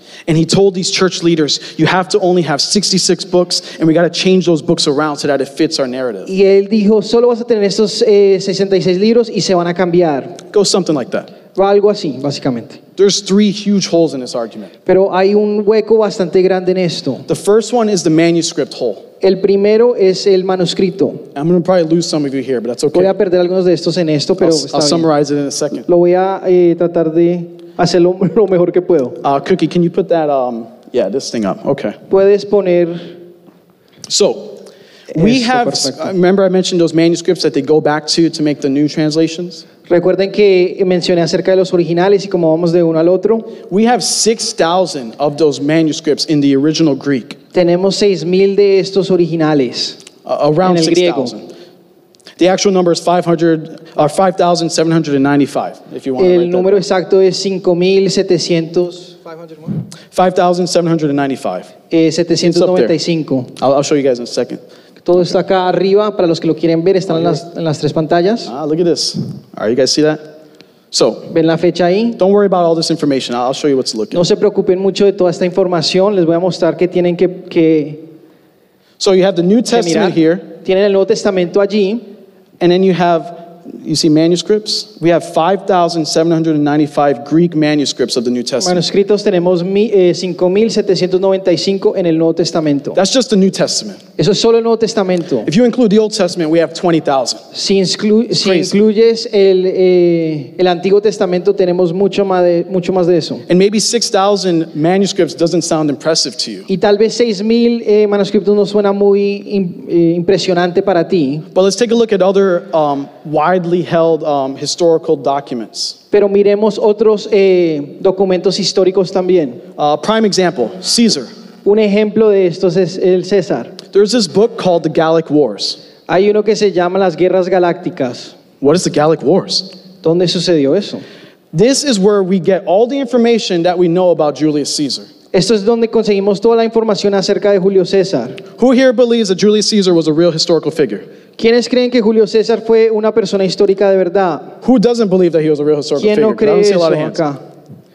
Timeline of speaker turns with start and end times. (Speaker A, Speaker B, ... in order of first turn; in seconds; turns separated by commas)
Speaker A: 0.3-6.3, Speaker B: 6.3-10.4, Speaker A: 10.5-11.3, Speaker B: 11.5-12.8, Speaker A: 13.0-14.7, Speaker B: 14.9-17.3, Speaker A: 17.3-19.0, Speaker B: 19.2-21.3, Speaker A: 21.4-23.1, Speaker B: 22.9-25.1, Speaker A: 24.4-25.9, Speaker B: 25.9-29.2, Speaker A: 29.2-32.0, Speaker B: 32.1-33.1, Speaker A: 34.1-34.6, Speaker B: 35.1-36.1, Speaker A: 35.1-39.6, Speaker B: 39.9-43.6, Speaker A: 43.7-47.4, Speaker B: 47.5-50.0, Speaker A: 50.2-51.5, Speaker B: 50.6-51.4, Speaker A: 52.4-56.9, Speaker B: 56.2-59.7, Speaker A: 60.1-61.7, Speaker B: 61.9-63.5, Speaker A: 62.4-63.0, Speaker A: 63.6-64.6, Speaker B: 65.0-68.5, Speaker A: 67.1-67.4, Speaker A: 68.5-70.2, Speaker A: 70.9-71.3, Speaker B: 71.3-72.2, Speaker A: 72.2-74.2, Speaker B: 74.1-78.0, Speaker A: 79.0-80.5, Speaker B: 79.7-82.0, Speaker A: 82.6-88.8, Speaker B: 88.6-93.0, Speaker A: 93.0-94.0, Speaker B: 94.2-95.5, Speaker A: 95.5-97.4, Speaker B: 97.5-103.5, Speaker A: 98.3-98.8, Speaker A: 103.5-106.7, Speaker B: 106.7-111.5, Speaker A: 111.5-116.0, Speaker B: 116.1-119.6, Speaker A: 119.8-121.3, Speaker B: 121.7-123.8, Speaker A: 123.9-125.8, Speaker B: 126.1-128.3, Speaker A: 128.6-129.7, Speaker B: 130.0-131.1, Speaker A: 131.5-135.1, Speaker B: 135.3-138.4, Speaker A: 138.6-141.1, Speaker B: 141.4-144.6, Speaker A: 144.6-147.2, Speaker B: 146.0-147.4